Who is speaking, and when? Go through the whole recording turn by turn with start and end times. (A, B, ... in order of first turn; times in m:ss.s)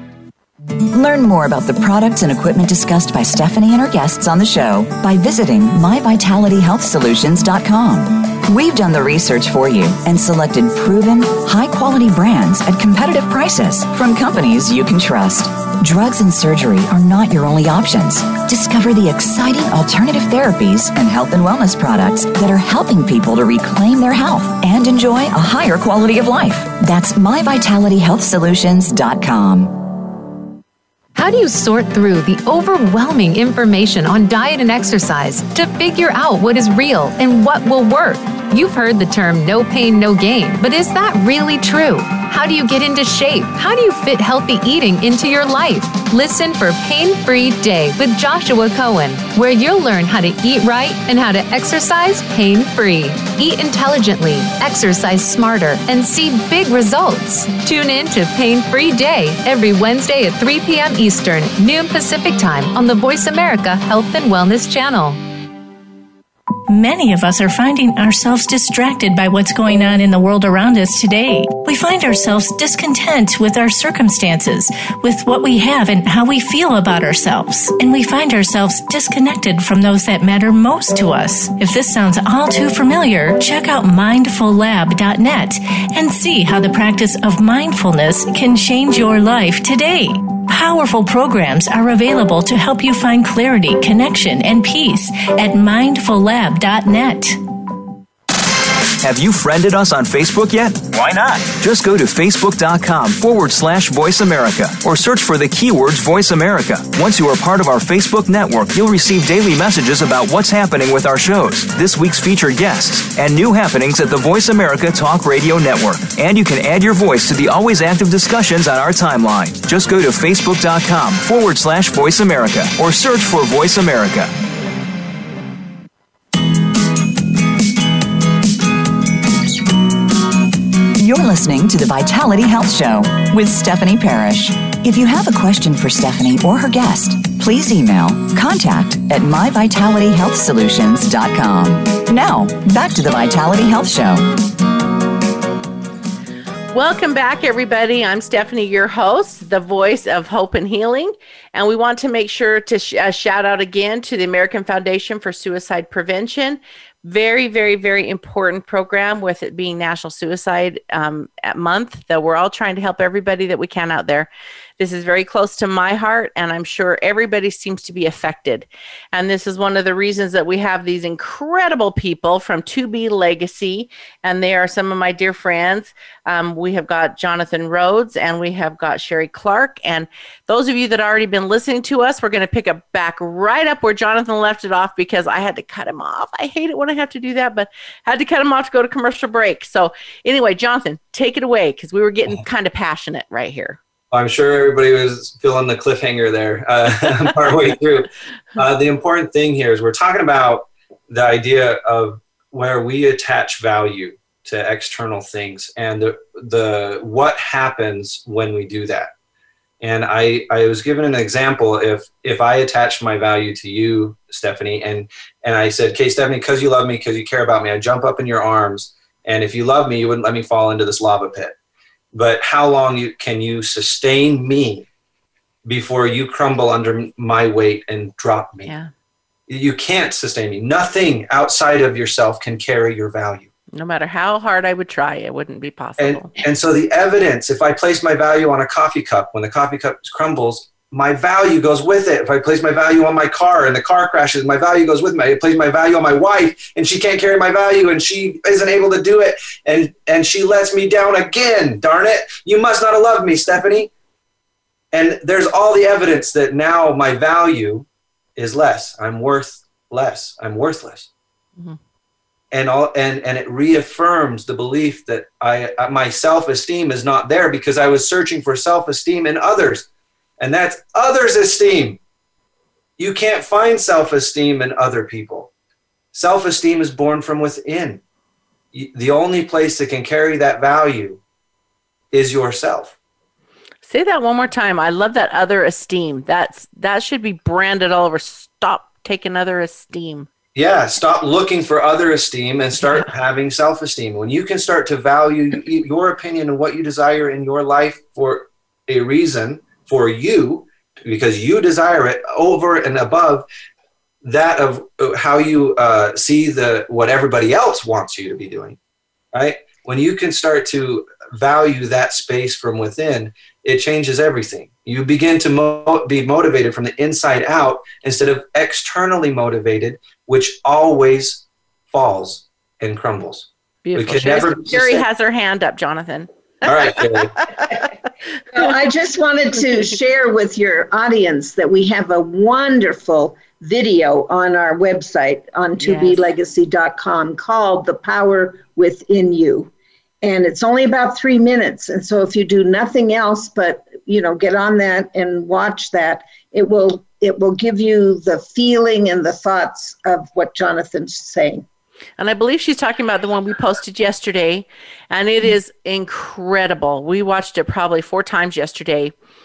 0:00.9-0:29.9 A
0:31.1-1:05.2 B
1:06.7-1:37.4 C
1:39.0-2:04.3 D
2:11.0-2:24.3 A
2:26.7-3:13.8 E
3:14.1-3:29.1 F
3:29.8-3:41.5 F
3:42.1-3:44.8 F
3:45.6-3:48.7 F
3:48.6-3:48.9 E
3:49.5-3:53.5 F
3:53.7-3:56.3 E
3:56.0-4:13.9 F
4:14.9-4:21.1 F
4:22.5-4:29.9 F
4:30.4-4:32.0 F
4:33.0-4:35.5 F
4:36.1-4:38.0 F
4:38.7-4:41.2 F
4:42.1-4:42.9 F
4:43.8-4:50.3 E
4:50.5-5:03.5 F
5:04.2-5:08.8 F
5:09.3-5:25.0 F
5:23.8-5:27.8 E
5:26.6-5:27.4 F
5:28.5-5:39.7 G
5:35.8-5:36.2 E
5:40.2-5:51.6 G
5:52.2-5:59.1 E